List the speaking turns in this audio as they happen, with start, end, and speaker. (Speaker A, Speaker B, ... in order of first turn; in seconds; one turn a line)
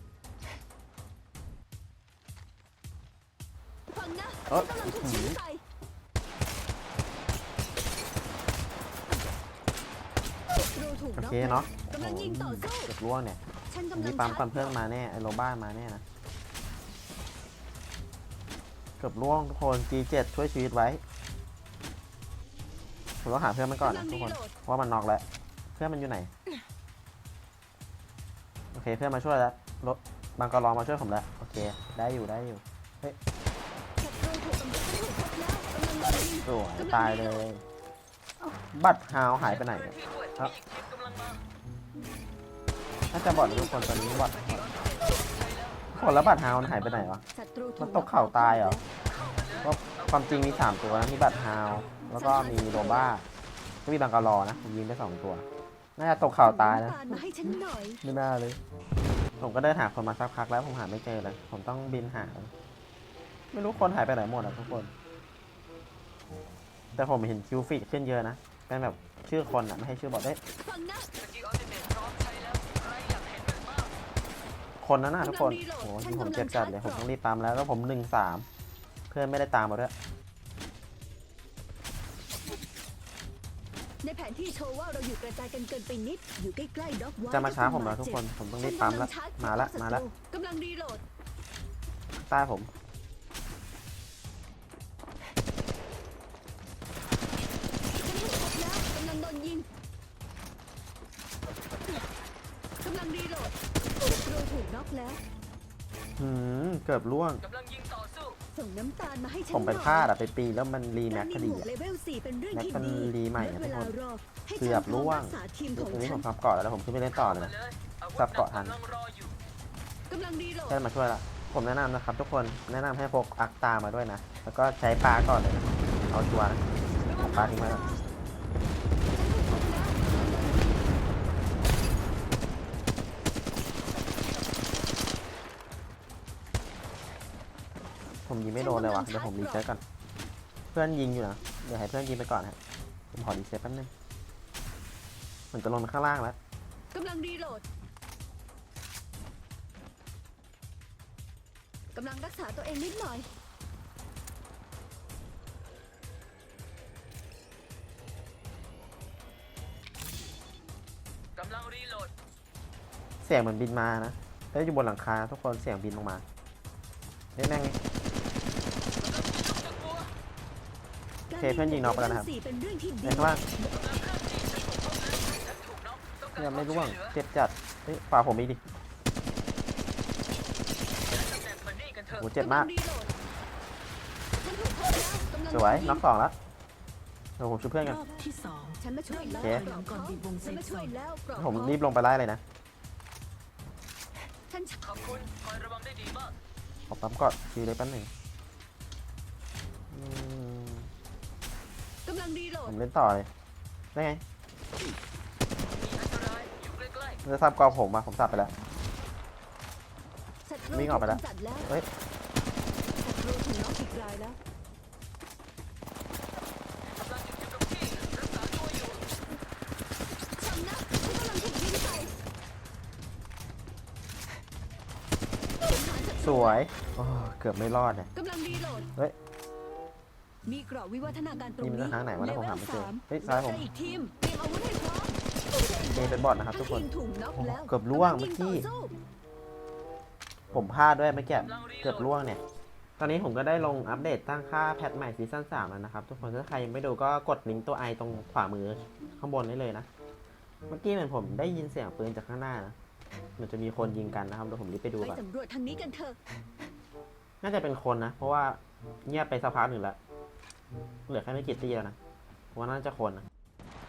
Speaker A: 3.9-5.6
Speaker B: 4.5-5.4
Speaker A: 10.5-12.9
Speaker B: 11.2-13.4
Speaker A: 13.7-14.8
Speaker B: 13.9-16.0
Speaker B: 19.0-21.0
Speaker B: 23.2-26.3
Speaker A: 23.8-24.5
Speaker B: 28.7-33.2
Speaker A: 34.0-37.5
Speaker B: 36.4-37.6
Speaker B: 38.4-40.5
Speaker C: 39.4-41.4
Speaker B: 43.1-44.7
Speaker A: 43.2-44.9
Speaker C: 44.4-47.1
Speaker B: 45.9-47.2
Speaker A: 47.3-48.9
Speaker B: 47.8-48.8
Speaker C: 49.1-51.9
Speaker B: 49.6-53.3
Speaker A: 52.1-53.1
Speaker B: 53.9-55.5
Speaker B: 56.0-58.6
Speaker A: 56.4-58.0
Speaker B: 59.4-62.5
Speaker B: 63.5-64.9
Speaker B: 67.0-70.4
Speaker A: 70.6-71.1
Speaker C: 71.2-73.9
Speaker B: 74.8-78.5
Speaker A: 75.2-77.1
Speaker B: 79.1-79.9
Speaker A: 84.0-91.0
Speaker B: 87.3-90.0
Speaker B: 92.2-92.7
Speaker A: 98.0-99.7
Speaker A: 102.8-105.2
Speaker B: 106.2-107.4
Speaker C: 107.4-108.4
Speaker A: 108.5-110.1
Speaker B: 109.5-111.7
Speaker A: 111.1-116.3
Speaker B: 112.5-114.0
Speaker B: 114.6-117.5
Speaker C: 117.1-119.4
Speaker B: 118.2-118.8
Speaker A: 120.1-120.8
Speaker B: 120.7-126.6
Speaker A: 127.0-128.0
Speaker B: 127.2-127.8
Speaker A: 129.1-130.9
Speaker B: 138.3-139.8
Speaker A: 138.6-139.7
Speaker B: 140.7-142.6
Speaker B: 143.1-143.9
Speaker B: 145.5-146.4
Speaker A: 146.9-147.7
Speaker A: 151.9-153.3
Speaker C: 161.4-162.1
Speaker B: 163.2-166.2
Speaker B: 167.4-167.8
Speaker C: 169.0-170.1
Speaker A: 171.3-173.7
Speaker B: 171.4-172.3
Speaker B: 173.0-173.4
Speaker C: 173.7-177.2
Speaker B: 176.4-178.6
Speaker C: 181.1-182.3
Speaker B: 182.2-182.7
Speaker A: 182.4-183.1
Speaker A: 184.4-186.0
Speaker B: 185.5-186.3
Speaker B: 187.4-188.0
Speaker D: 187.8-190.9
Speaker A: 188.8-191.8
Speaker B: 189.4-189.7
Speaker B: 191.4-192.4
Speaker A: 194.5-194.8
Speaker C: 194.8-196.4
Speaker B: 196.9-198.1
Speaker B: 199.9-200.9
Speaker A: 202.1-202.8
Speaker B: 202.7-203.3
Speaker B: 203.9-204.2
Speaker C: 205.7-207.2
Speaker B: 207.2-208.5
Speaker A: 210.4-211.7
Speaker B: 210.7-211.9
Speaker A: 213.0-214.4
Speaker C: 216.9-219.0
Speaker A: 220.4-222.2
Speaker A: 225.6-226.7
Speaker B: 226.2-228.1
Speaker A: 228.1-228.9
Speaker A: 230.4-238.9
Speaker B: 231.6-233.6
Speaker B: 235.9-238.7
Speaker B: 240.5-242.4
Speaker C: 241.4-242.1
Speaker B: 243.0-249.9
Speaker B: 250.7-252.8
Speaker B: 253.4-255.2
Speaker A: 255.0-256.2
Speaker B: 257.4-260.0
Speaker B: 261.1-262.0
Speaker B: 262.5-263.3